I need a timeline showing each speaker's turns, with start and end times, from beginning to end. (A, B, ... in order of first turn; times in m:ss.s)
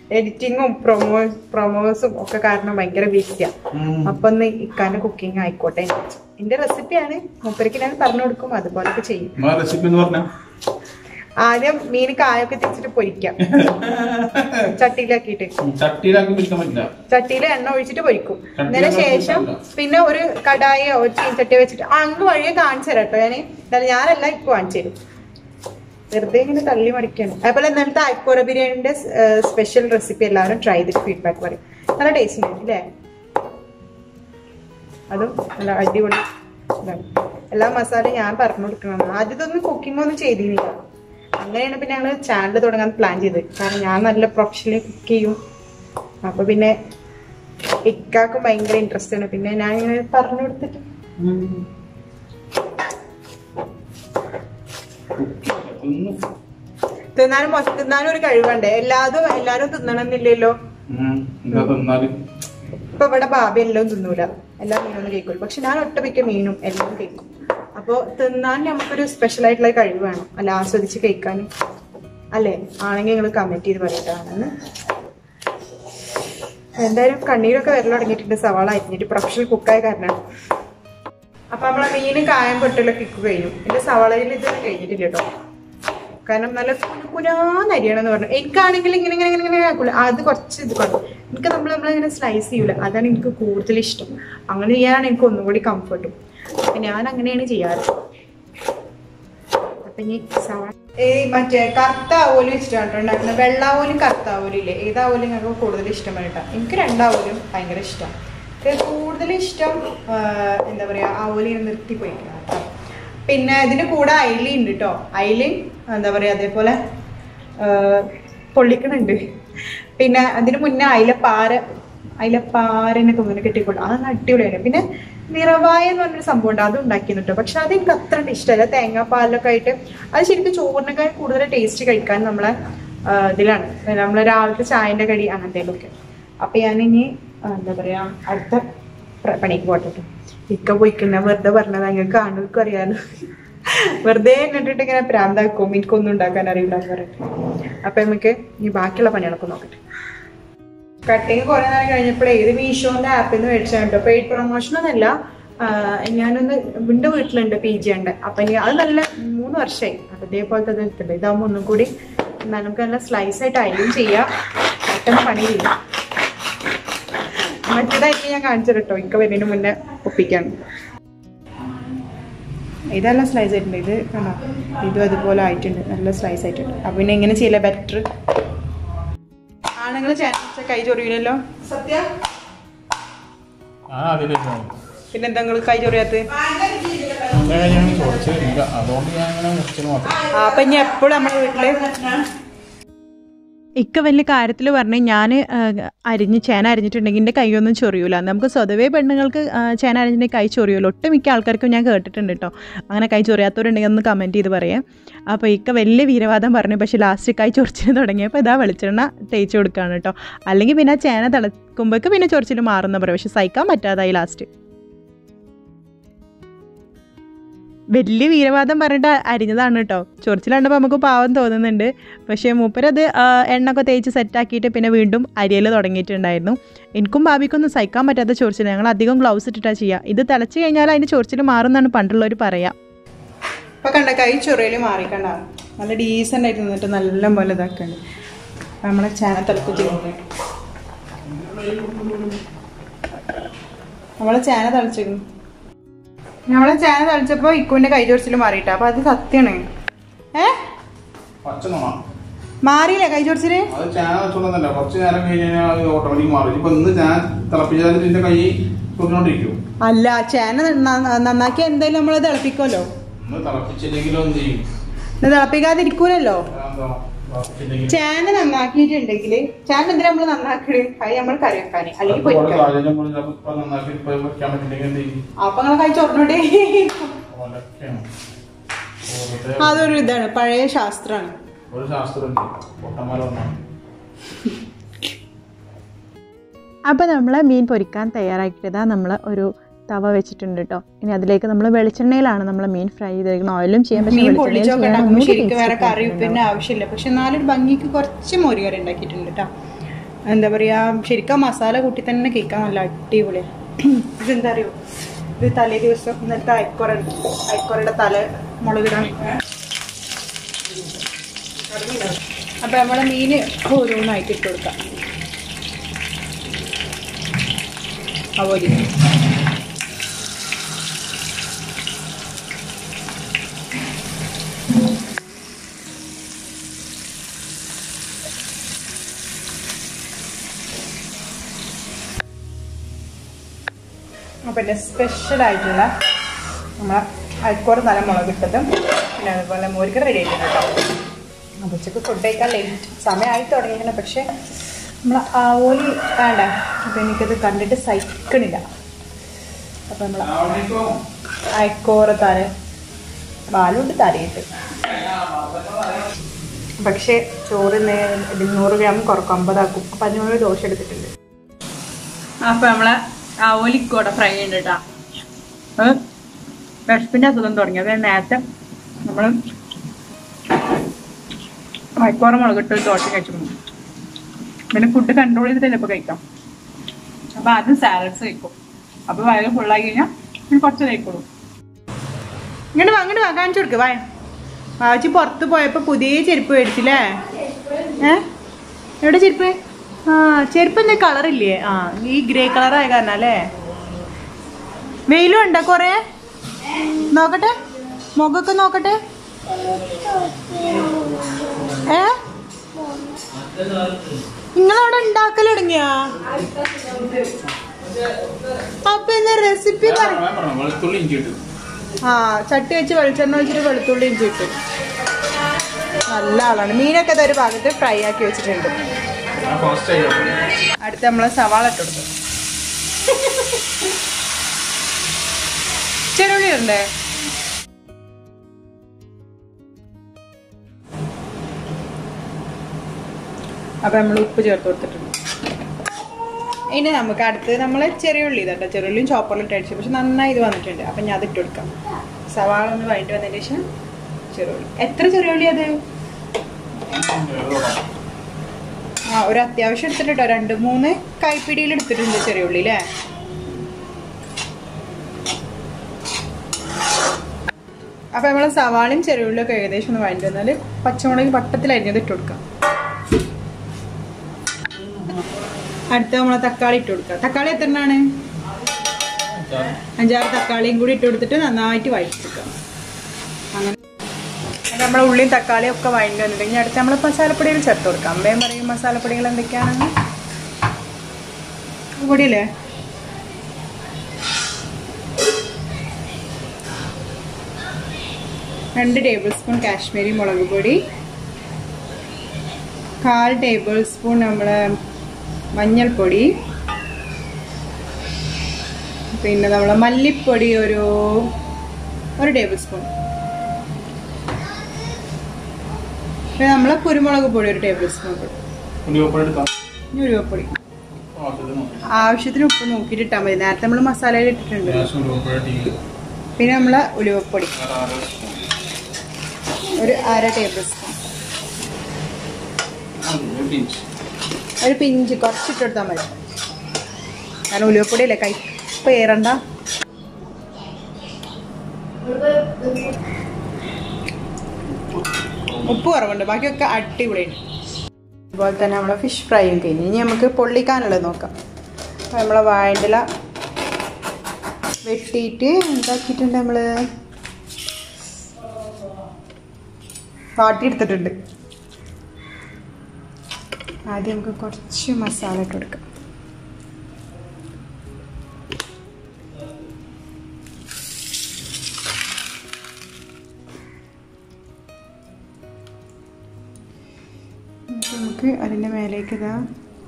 0:00.1-0:03.5 A
0:03.7-0:04.2 B
0:04.0-0:09.3 A
0:09.4-0:10.3 B
0:11.4-0:13.4 A
0:13.4-0:14.7 B
0:14.7-0:15.5 A
0:15.6-0:16.9 B
0:17.1-0:25.0 A
0:18.6-0:19.6 B
0:26.1-0:32.8 A
0:35.1-0:36.2 A
0:36.8-0:40.8 A
0:41.4-0:45.4 A
0:46.2-0:46.7 A
0:47.8-0:50.8 A
0:51.2-0:51.6 B
0:55.2-0:56.2 B
0:57.2-1:00.6 A
1:00.9-1:02.2 B
1:03.0-1:11.5 A
1:12.3-1:14.5 A
1:16.8-1:20.2 A
1:21.5-1:25.3 A
1:26.2-1:36.2 A
1:36.7-1:37.9 A
1:39.8-1:52.7 A
1:53.3-1:56.8 A
1:57.6-1:59.2 A
2:00.0-2:01.6 A
2:02.2-2:12.5 A
2:13.1-2:18.6 A
2:19.2-2:23.0 A
2:23.7-2:27.2 A
2:27.8-2:29.8 A
2:31.1-2:41.9 A
2:42.4-2:44.3 A
2:44.9-2:45.7 A
2:47.7-2:50.6 A
2:52.9-2:58.0 A
2:59.8-3:02.1 A
3:03.9-3:04.7 B
3:05.1-3:06.8 A
3:07.3-3:10.3 B
3:10.3-3:12.2 A
3:13.8-3:21.8 A
3:20.6-3:22.5 C
3:22.9-3:24.8 A
3:25.4-3:27.5 A
3:25.8-3:26.2 C
3:27.5-3:28.6 C
3:28.4-3:34.5 A
3:29.7-3:30.1 C
3:37.9-3:52.7 A
3:53.8-3:58.0 A
3:58.8-4:00.0 A
3:59.5-4:00.2 B
4:01.2-4:02.4 B
4:04.2-4:05.2 A
4:06.5-4:09.6 A
4:11.4-4:12.0 B
4:12.6-4:13.7 A
4:13.7-4:19.6 B
4:19.8-4:22.9 A
4:23.2-4:24.7 B
4:25.2-4:26.5 A
4:26.5-4:28.0 B
4:27.9-4:32.7 A
4:32.1-4:35.2 B
4:35.4-4:37.2 A
4:37.3-4:38.0 B
4:39.1-4:40.1 B
4:39.6-4:41.4 A
4:41.7-4:43.6 B
4:46.9-4:56.4 C
4:54.0-4:59.5 A
5:00.3-5:04.8 A
5:05.4-5:09.4 A
5:11.7-5:14.8 A
5:18.4-5:18.8 A
5:34.5-5:35.9 A
5:36.8-5:40.8 A
5:41.6-5:44.3 A
5:45.0-5:48.6 A
5:49.9-5:50.3 A
5:50.2-5:51.0 B
5:51.5-5:52.5 A
5:53.5-5:54.5 A
5:54.8-5:56.1 B
5:56.8-6:01.1 A
6:02.4-6:04.8 A
6:06.9-6:08.4 A
6:09.0-6:09.4 A
6:12.0-6:13.5 A
6:14.7-6:16.2 A
6:17.4-6:18.6 A
6:19.1-6:21.2 A
6:22.7-6:24.0 A
6:24.8-6:27.2 A
6:27.9-6:28.2 A
6:29.0-6:29.6 A
6:30.1-6:33.5 A
6:35.1-6:36.0 A
6:37.0-6:37.6 A
6:38.2-6:39.0 A
6:41.8-6:42.2 A
6:44.6-6:46.3 A
6:48.8-6:50.2 A
6:49.8-6:51.4 B
6:52.0-6:54.6 A
6:56.1-6:58.8 A
6:59.4-7:00.4 B
7:00.8-7:02.1 A
7:06.1-7:06.9 A
7:13.8-7:15.1 A
7:16.7-7:21.7 A
7:22.3-7:23.6 A
7:24.3-7:25.8 A
7:26.9-7:27.8 B
7:29.1-7:32.8 A
7:38.1-7:42.4 A
7:45.9-7:48.0 A
7:49.3-7:49.8 B
7:50.0-7:52.5 A
7:54.7-7:59.9 A
8:02.0-8:02.5 A
8:08.8-8:10.8 A
8:13.0-8:14.8 A
8:15.5-8:16.3 A
8:19.1-8:21.3 A
8:22.2-8:22.9 A
8:26.4-8:28.4 A
8:28.8-8:29.5 B
8:29.9-8:30.6 A
8:31.0-8:31.8 B
8:31.9-8:34.9 A
8:34.6-8:35.8 B
8:36.4-8:37.5 A
8:37.6-8:38.5 B
8:39.8-8:41.0 A
8:43.0-8:43.8 B
8:44.6-8:46.2 A
8:47.5-8:49.4 A
8:55.6-8:57.4 A
8:58.3-9:01.3 A
9:02.1-9:03.0 A
9:04.8-9:06.7 A
9:10.4-9:11.1 A
9:13.9-9:15.8 A
9:27.7-9:29.4 A